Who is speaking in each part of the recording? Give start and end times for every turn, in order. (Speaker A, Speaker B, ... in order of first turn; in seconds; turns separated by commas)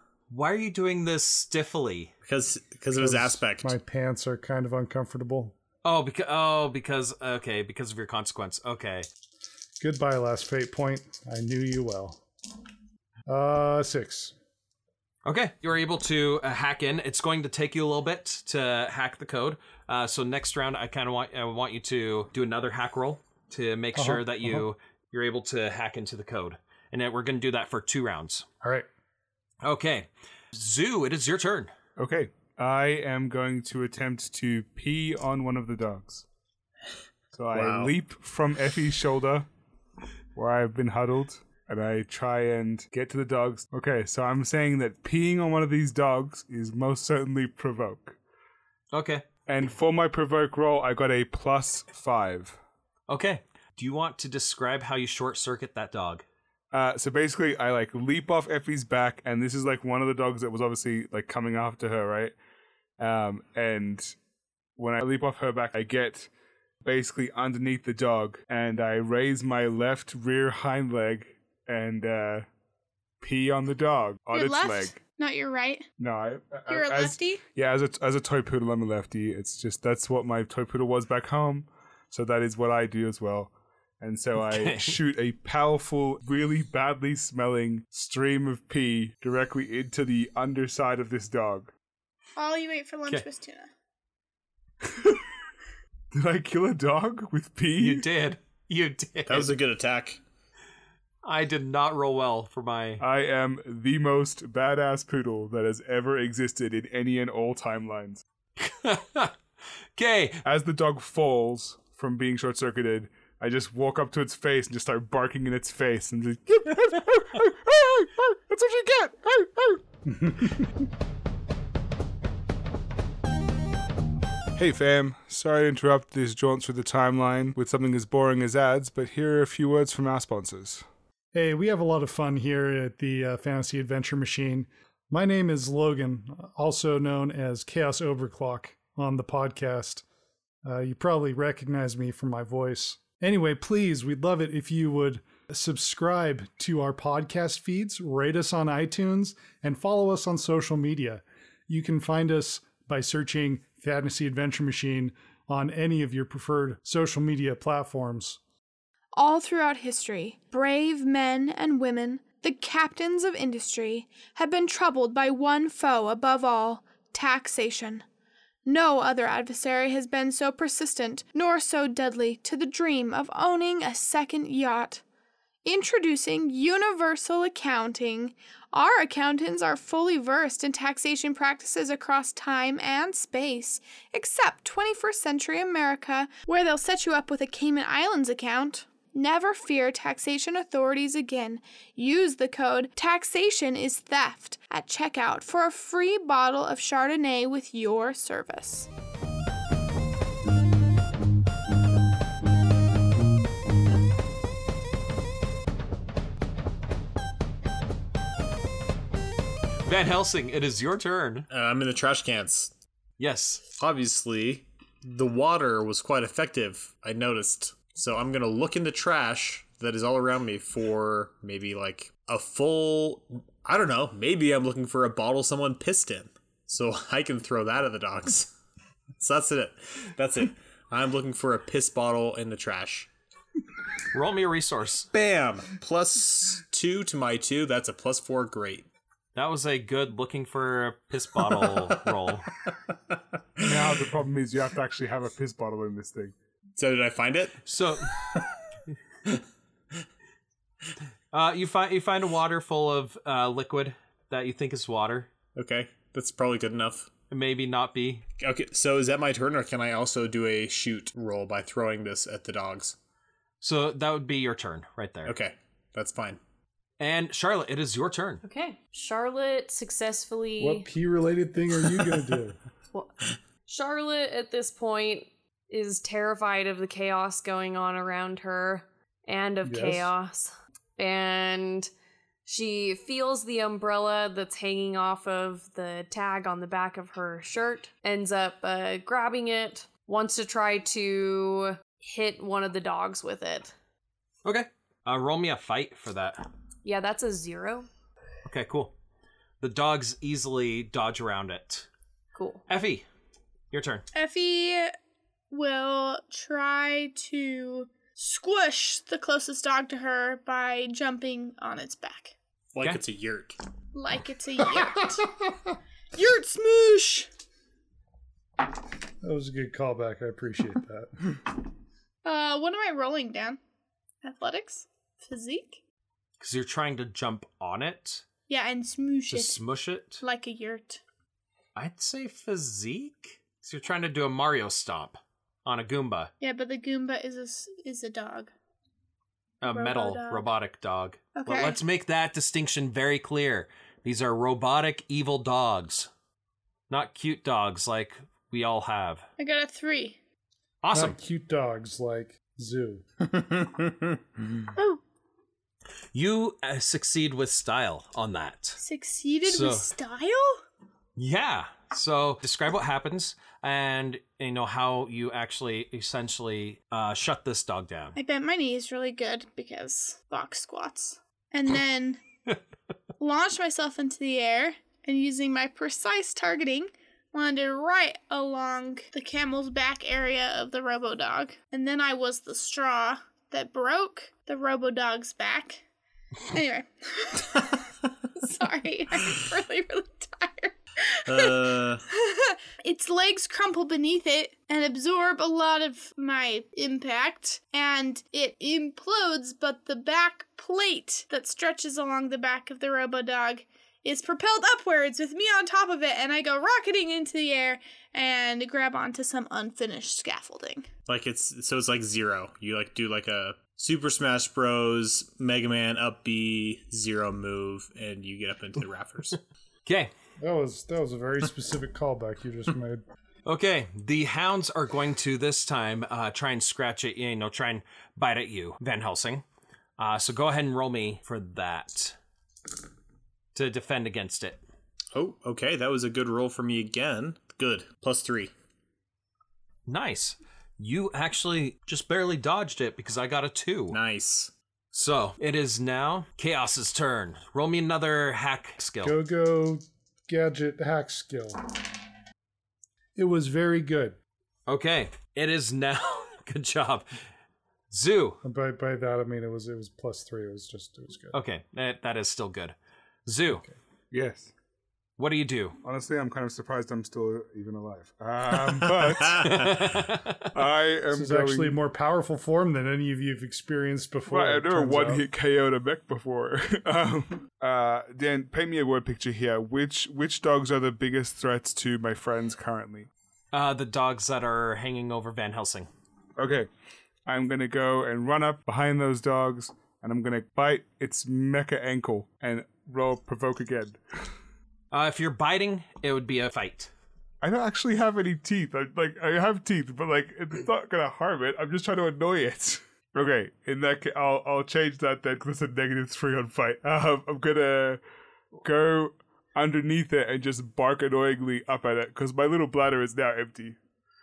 Speaker A: 0.3-2.1, Speaker B: 2.2-3.7, Speaker C: 2.9-5.5, Speaker A: 5.8-9.1, Speaker C: 9.8-12.2, Speaker C: 13.3-14.3, Speaker A: 15.2-28.4, Speaker C: 23.9-24.6, Speaker C: 28.6-28.9, Speaker A: 29.6-31.7, Speaker D: 32.0-36.2, Speaker D: 37.3-39.5, Speaker B: 37.5-37.9, Speaker D: 40.3-48.1, Speaker A: 48.9-49.2, Speaker D: 49.5-52.6, Speaker A: 53.1-56.2, Speaker D: 56.7-62.3, Speaker D: 63.0-64.1, Speaker D: 64.8-66.3, Speaker D: 66.8-72.5, Speaker D: 73.2-75.0, Speaker E: 74.3-75.8, Speaker D: 76.0-91.7, Speaker E: 76.7-77.4, Speaker A: 84.4-85.0, Speaker E: 92.3-93.7, Speaker D: 94.8-95.2, Speaker D: 96.1-98.1, Speaker A: 97.8-99.5, Speaker B: 99.2-100.2, Speaker A: 101.2-103.0, Speaker D: 103.0-108.2, Speaker A: 108.6-109.3, Speaker A: 110.0-110.4, Speaker D: 110.4-119.8, Speaker C: 120.2-120.5, Speaker D: 124.5-130.8, Speaker C: 131.3-140.0, Speaker C: 140.6-158.4, Speaker E: 159.1-168.0, Speaker E: 168.7-175.0, Speaker E: 175.6-198.9, Speaker A: 209.8-211.5, Speaker B: 211.5-212.7, Speaker A: 213.2-213.6, Speaker B: 213.7-228.5, Speaker B: 229.1-233.1, Speaker A: 234.1-235.1, Speaker B: 235.1-238.9, Speaker A: 239.3-242.5, Speaker D: 243.6-246.3, Speaker B: 246.8-247.6, Speaker A: 247.7-248.2, Speaker A: 251.3-255.3, Speaker B: 255.6-257.1, Speaker A: 257.3-258.2, Speaker B: 258.4-263.0, Speaker A: 263.6-265.3, Speaker B: 265.2-266.4, Speaker A: 267.0-268.4, Speaker F: 268.4-270.9, Speaker C: 270.6-272.6, Speaker F: 273.6-281.9, Speaker C: 279.6-280.1, Speaker F: 282.4-293.7, Speaker A: 294.4-296.4, Speaker F: 296.8-297.9, Speaker A: 298.4-298.9, Speaker A: 299.6-301.9, Speaker F: 302.3-302.6, Speaker A: 302.7-303.1, Speaker A: 303.7-304.0, Speaker E: 304.1-304.9, Speaker E: 305.5-312.3, Speaker B: 312.7-313.6, Speaker E: 313.9-315.3, Speaker E: 316.1-317.3, Speaker C: 319.2-321.4, Speaker E: 322.2-323.6, Speaker E: 324.2-325.8, Speaker A: 326.4-328.2, Speaker E: 328.5-329.6, Speaker A: 329.3-330.2, Speaker E: 330.2-331.0, Speaker A: 331.8-336.3, Speaker E: 336.4-338.5, Speaker A: 339.6-346.1, Speaker E: 339.6-340.4, Speaker E: 341.3-341.8, Speaker A: 346.9-349.2, Speaker E: 349.4-350.2, Speaker A: 350.8-351.1, Speaker C: 350.9-353.1, Speaker A: 356.1-358.8, Speaker E: 358.8-360.6, Speaker A: 359.4-359.9, Speaker A: 361.1-368.1, Speaker E: 368.1-372.2, Speaker E: 373.2-385.8, Speaker E: 386.5-410.9, Speaker B: 391.3-392.0, Speaker B: 411.1-419.4, Speaker A: 419.9-420.1, Speaker C: 420.4-423.0, Speaker A: 423.4-429.4, Speaker A: 430.0-432.1, Speaker A: 433.5-434.6, Speaker B: 435.1-438.5, Speaker A: 439.9-444.0, Speaker B: 443.9-444.5, Speaker A: 444.9-449.2, Speaker C: 449.0-451.6, Speaker C: 453.1-454.2, Speaker A: 454.7-457.1, Speaker A: 457.9-458.4, Speaker C: 458.4-461.4, Speaker A: 461.3-463.6, Speaker D: 464.1-464.5, Speaker A: 465.2-465.8, Speaker D: 465.8-471.7, Speaker A: 469.1-470.5, Speaker B: 469.3-469.9, Speaker C: 471.1-475.2, Speaker D: 474.3-483.1, Speaker A: 483.5-485.9, Speaker D: 486.4-486.7, Speaker D: 487.2-494.0, Speaker A: 494.9-496.9, Speaker D: 497.4-508.0, Speaker D: 508.6-513.8